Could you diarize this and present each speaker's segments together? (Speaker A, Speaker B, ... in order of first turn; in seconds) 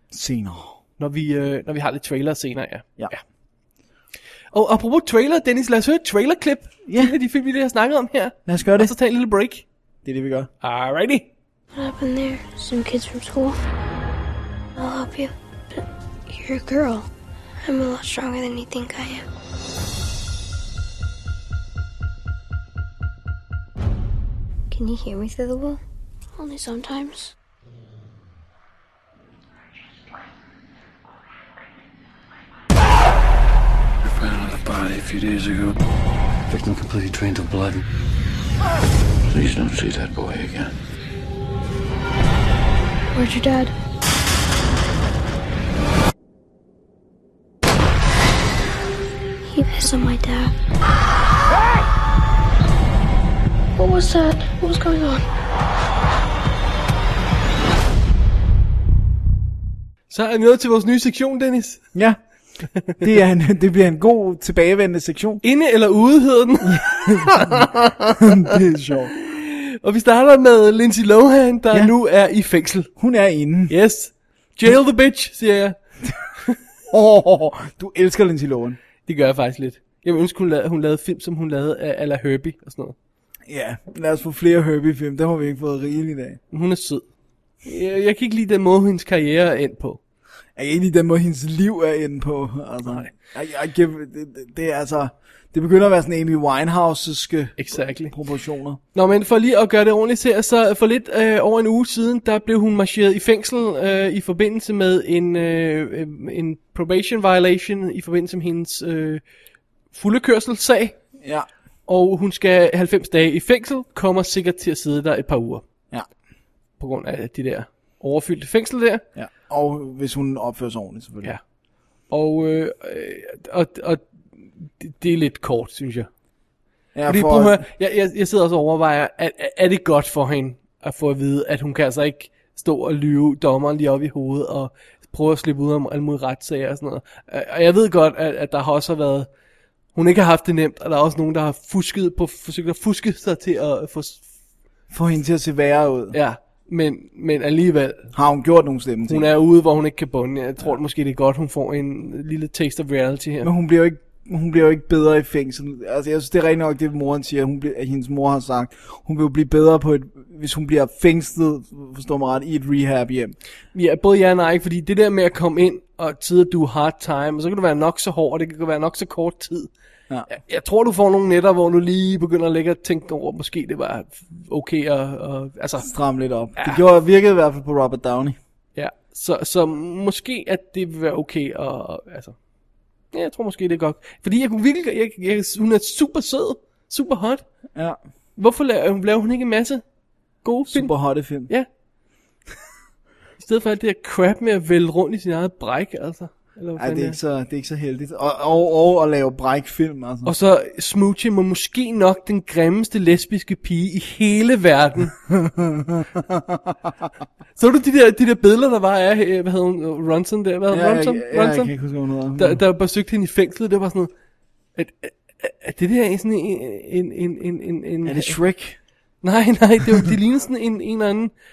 Speaker A: 0.1-0.8, 6.9-7.1, 8.5-8.9, 10.1-10.5, 61.9-62.2, 62.9-65.4, 66.7-67.7, 68.2-69.1, 73.0-73.7, 76.9-78.8, 83.5-86.4, 90.6-98.8, 111.2-111.5, 119.2-121.3, 126.9-127.6, 144.9-146.2, 148.1-149.3, 153.4-163.3, 175.8-178.4, 190.7-191.5, 196.8-200.3, 205.3-206.7, 210.7-212.6, 218.1-218.8
Speaker B: 1.0-3.2, 4.5-9.7, 10.6-11.3, 60.1-61.9, 65.4-68.4, 69.1-72.9, 73.7-75.8, 79.1-83.0, 86.5-87.0, 87.6-90.0, 92.9-93.1, 97.6-98.2, 98.9-109.2, 109.9-111.0, 111.9-115.6, 116.8-119.0, 122.1-124.0, 124.7-126.1, 127.1-139.3, 139.9-144.3, 146.1-148.1, 149.1-153.5, 163.7-169.7, 170.3-175.9, 176.6-176.8, 178.8-182.4, 183.1-187.4, 188.4-189.8, 190.4-191.7, 193.4-197.2, 200.2-205.2, 207.6-211.7, 212.4-214.1, 214.8-218.4, 219.2-221.3
Speaker C: 11.7-13.6, 14.8-17.1, 17.6-19.3, 24.7-25.8, 26.4-27.3, 43.1-43.7, 49.4-50.5, 53.8-55.2
Speaker D: 34.0-35.7, 36.5-37.8, 39.3-40.7